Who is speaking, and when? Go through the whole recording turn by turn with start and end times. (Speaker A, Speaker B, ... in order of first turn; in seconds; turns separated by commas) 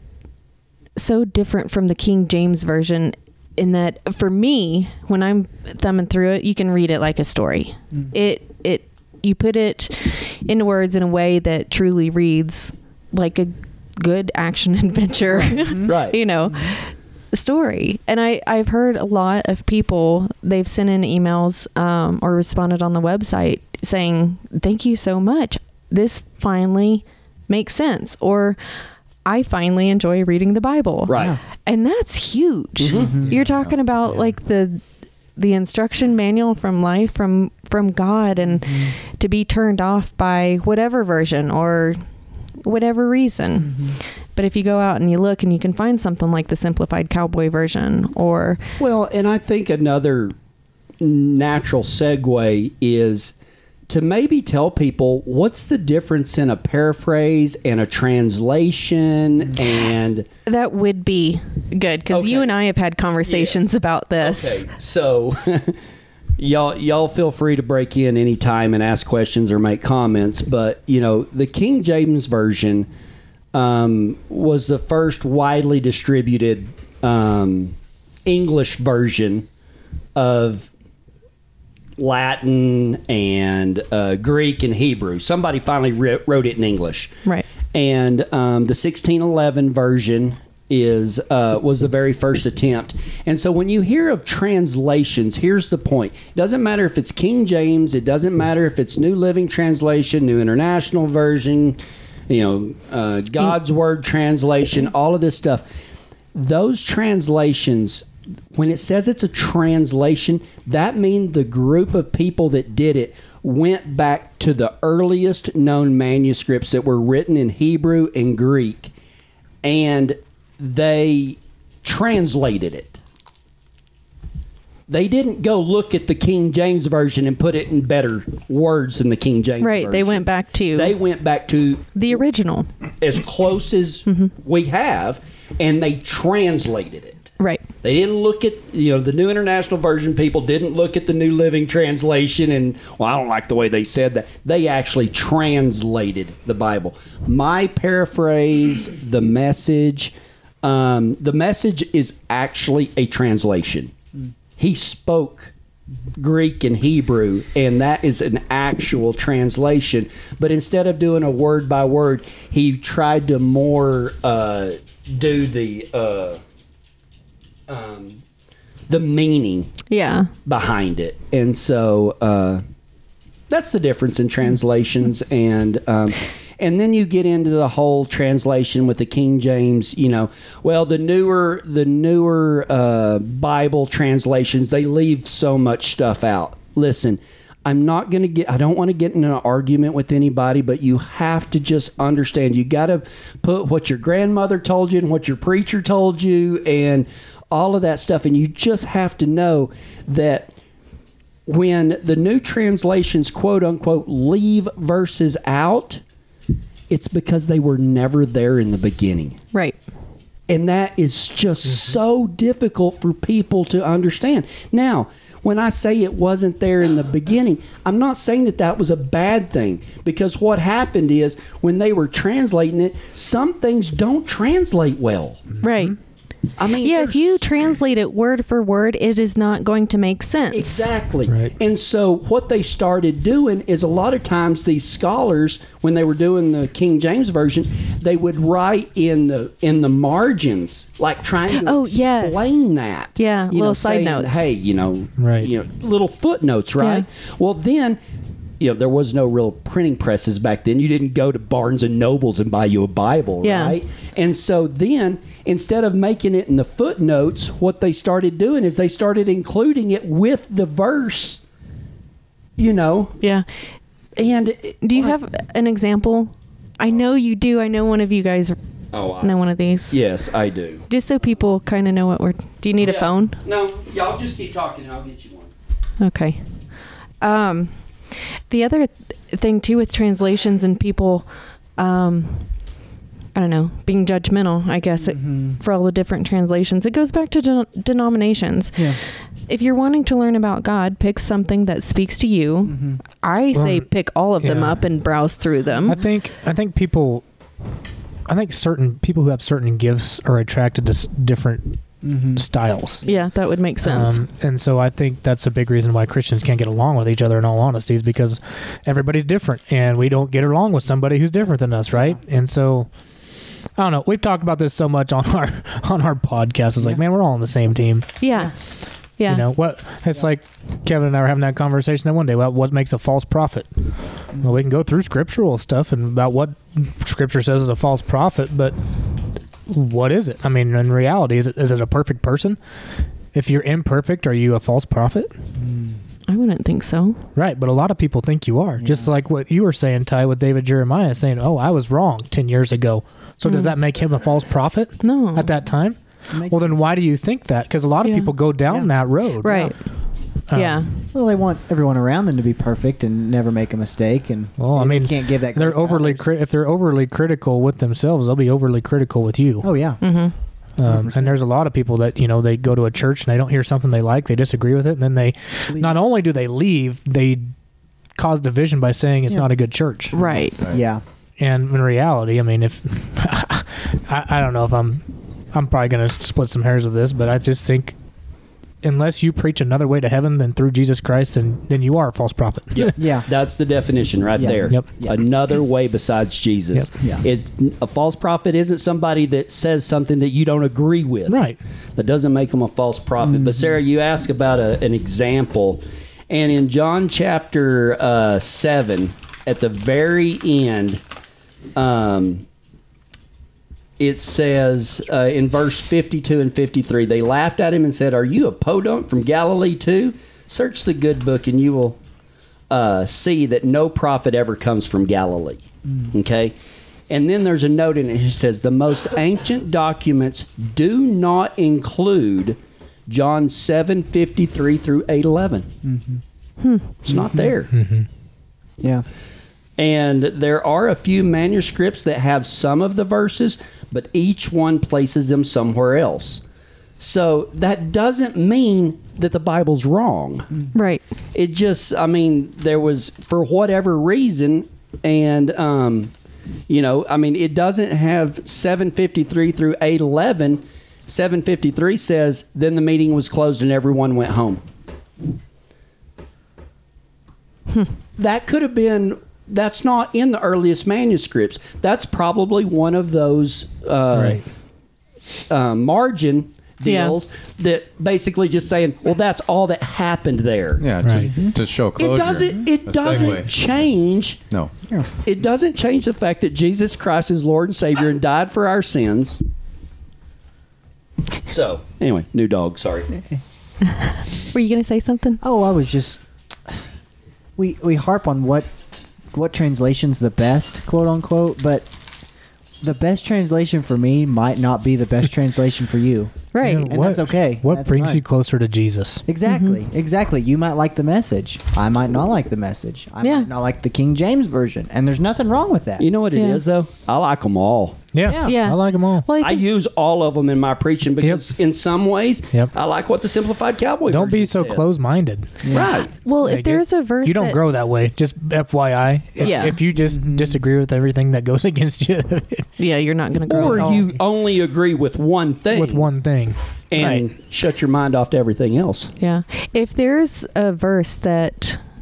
Speaker A: 1.0-28.6, Speaker B: 15.4-15.9, Speaker C: 15.8-16.2, Speaker A: 29.2-34.8, Speaker C: 31.1-31.4, Speaker C: 32.8-33.3, Speaker B: 33.0-33.3, Speaker D: 33.3-33.7, Speaker A: 35.4-42.0, Speaker B: 38.6-38.9, Speaker A: 42.6-48.6, Speaker B: 43.7-44.0, Speaker C: 48.8-50.4, Speaker C: 51.0-53.3, Speaker C: 53.9-60.3, Speaker A: 60.5-64.7, Speaker C: 62.1-62.5, Speaker C: 63.2-63.7, Speaker C: 64.2-65.8, Speaker C: 66.4-72.9, Speaker C: 73.5-79.5, Speaker C: 80.2-80.7, Speaker C: 82.0-87.1, Speaker C: 87.7-105.7, Speaker C: 106.3-118.9, Speaker C: 119.6-123.0, Speaker C: 124.9-131.9, Speaker A: 129.6-130.9, Speaker A: 131.9-132.7, Speaker C: 133.0-137.3, Speaker A: 134.1-134.3, Speaker A: 137.4-137.6, Speaker C: 137.8-153.9, Speaker C: 154.6-155.5, Speaker C: 156.2-166.4, Speaker C: 167.7-168.2, Speaker C: 168.9-169.8, Speaker A: 169.9-170.3, Speaker C: 170.5-172.6, Speaker C: 173.5-200.5, Speaker C: 201.5-206.0, Speaker C: 206.9-209.4, Speaker C: 210.5-225.5, Speaker A: 225.6-226.0, Speaker C: 226.6-227.5, Speaker A: 226.8-230.9, Speaker C: 230.5-248.0, Speaker E: 231.3-231.5, Speaker A: 241.5-242.6, Speaker A: 243.2-244.4, Speaker E: 245.2-245.5, Speaker A: 246.8-247.1, Speaker C: 248.6-261.4, Speaker A: 253.4-253.8, Speaker C: 262.6-263.2, Speaker C: 264.2-265.2, Speaker A: 264.8-268.6, Speaker C: 268.9-270.9, Speaker A: 269.2-270.0, Speaker A: 270.9-273.4, Speaker C: 272.8-275.5, Speaker A: 276.0-276.4, Speaker A: 277.2-281.3, Speaker A: 281.8-282.5, Speaker A: 283.4-296.0, Speaker B: 285.1-285.6, Speaker B: 292.7-293.0, Speaker E: 293.5-293.9, Speaker E: 294.4-294.9, Speaker E: 295.9-297.2, Speaker E: 298.3-303.0, Speaker B: 302.0-302.4, Speaker A: 303.0-304.2, Speaker E: 303.8-312.9, Speaker E: 313.8-318.1, Speaker A: 318.2-318.5, Speaker A: 319.2-319.4, Speaker E: 319.3-328.8, Speaker E: 329.7-332.6, Speaker E: 333.3-335.3, Speaker B: 335.6-336.0, Speaker A: 336.3-337.2, Speaker E: 337.4-349.7, Speaker B: 338.8-339.1, Speaker A: 343.5-343.7, Speaker A: 345.0-345.5, Speaker B: 346.3-346.8, Speaker A: 348.0-348.3, Speaker A: 349.4-349.8, Speaker E: 350.5-350.9, Speaker A: 350.5-351.0, Speaker B: 351.1-356.3, Speaker E: 354.6-359.7, Speaker B: 359.6-360.0, Speaker A: 360.0-360.4, Speaker E: 360.8-367.5, Speaker B: 360.8-361.4, Speaker B: 365.7-366.0, Speaker E: 368.2-370.2, Speaker A: 370.1-370.6, Speaker B: 370.1-371.0, Speaker E: 371.4-378.0, Speaker E: 378.8-383.0, Speaker C: 382.7-391.4, Speaker B: 383.0-383.3, Speaker B: 384.4-385.2, Speaker E: 391.3-391.6, Speaker C: 392.0-401.0, Speaker B: 393.2-393.7, Speaker C: 401.8-402.4, Speaker C: 404.0-412.0, Speaker C: 412.7-416.5, Speaker C: 417.1-425.7, Speaker B: 425.8-426.2, Speaker A: 426.6-426.9, Speaker C: 427.1-427.7, Speaker B: 427.1-427.5, Speaker E: 427.7-428.1, Speaker B: 428.8-429.1, Speaker C: 429.8-436.4, Speaker C: 437.0-440.6, Speaker A: 440.7-441.0, Speaker C: 441.3-446.1, Speaker C: 446.7-454.6, Speaker C: 458.2-464.4, Speaker E: 464.1-464.4, Speaker C: 465.5-470.9, Speaker A: 466.9-467.2, Speaker D: 470.8-473.5, Speaker E: 471.0-471.3, Speaker B: 471.2-471.6, Speaker C: 472.0-474.4, Speaker C: 475.2-479.4, Speaker C: 481.5-483.2, Speaker A: 483.9-485.4, Speaker B: 485.4-486.8, Speaker B: 487.6-488.7, Speaker B: 489.3-491.9, Speaker B: 492.8-498.2, Speaker A: 496.5-496.9, Speaker E: 496.6-499.2, Speaker B: 499.3-506.1, Speaker A: 499.4-499.8, Speaker A: 503.2-503.5, Speaker C: 506.0-508.1, Speaker A: 506.3-506.6, Speaker E: 508.1-509.3, Speaker B: 508.2-508.6, Speaker A: 508.4-509.6, Speaker C: 509.4-514.9, Speaker E: 511.2-511.5, Speaker E: 514.1-515.7, Speaker B: 515.6-515.9, Speaker C: 515.7-516.1, Speaker A: 515.8-517.6, Speaker E: 516.4-522.7, Speaker A: 519.4-519.8, Speaker B: 520.0-520.6, Speaker A: 522.8-524.0, Speaker C: 523.5-526.1, Speaker E: 525.7-527.3, Speaker C: 526.9-529.1, Speaker A: 529.2-531.8